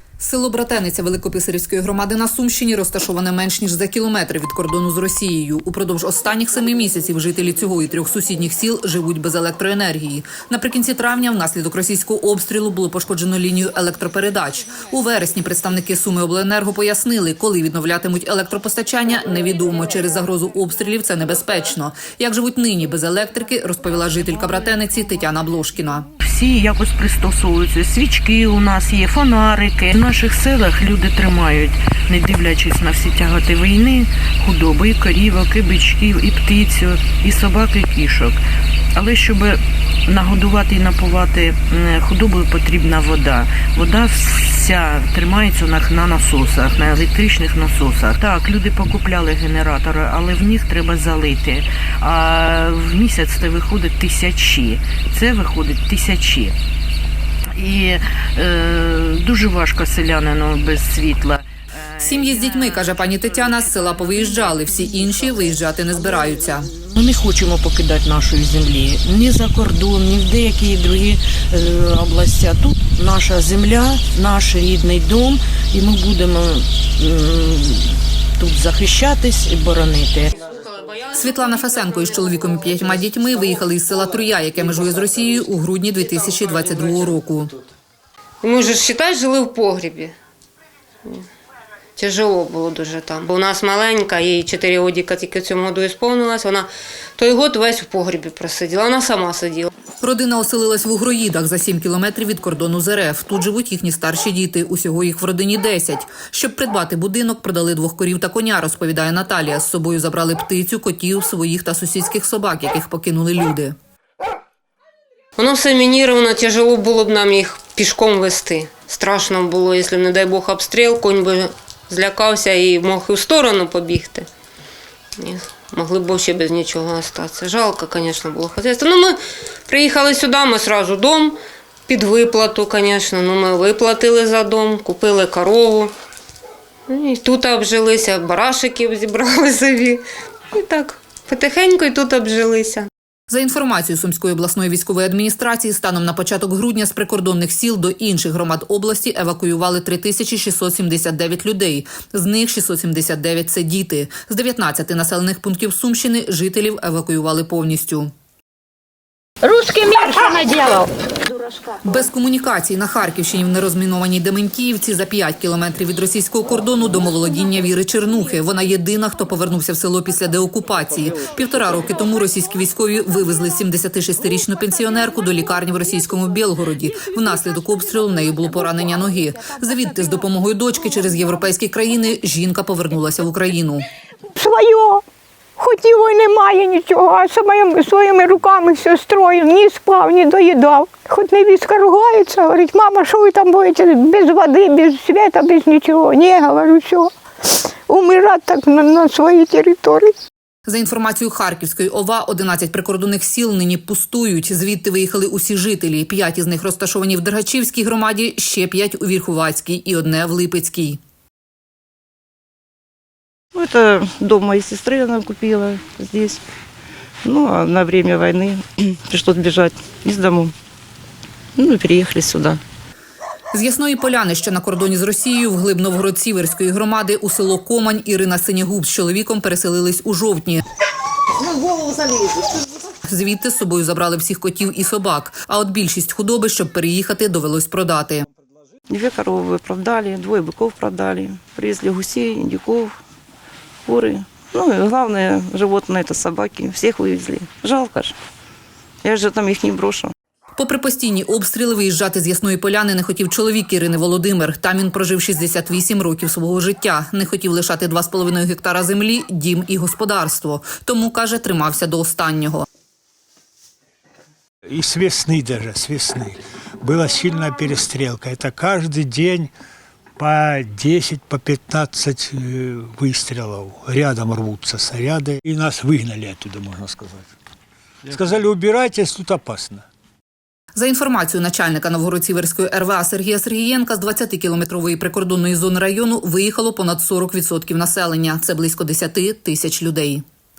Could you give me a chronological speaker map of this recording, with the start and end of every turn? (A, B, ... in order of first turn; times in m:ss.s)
0:00.2-0:26.1 A
0:26.2-0:38.4 B
0:39.0-0:56.5 B
0:57.5-1:05.3 B
1:02.0-1:06.7 A
1:06.8-1:20.3 B
1:20.3-1:22.9 C
1:21.1-1:27.5 A
1:28.4-1:30.1 C
1:31.0-1:31.3 C
1:32.0-1:39.7 C
1:40.0-1:53.8 A
1:55.4-2:04.3 C
2:05.2-2:15.9 C
2:16.9-2:22.9 C
2:23.3-2:38.1 A
2:41.8-3:03.8 A
3:04.3-3:05.0 D
3:05.6-3:17.1 D
3:17.9-3:20.1 D
3:20.6-3:31.0 A
3:33.5-3:36.4 E
3:37.2-3:40.5 E
3:41.6-3:42.6 E
3:43.5-3:50.6 A
3:53.0-3:58.3 A
3:58.9-4:03.0 E
4:03.8-4:08.2 E
4:09.0-4:10.1 E
4:10.6-4:22.6 A
4:24.7-4:29.5 F
4:30.2-4:37.3 F
4:38.1-4:39.8 F
4:40.7-4:50.2 A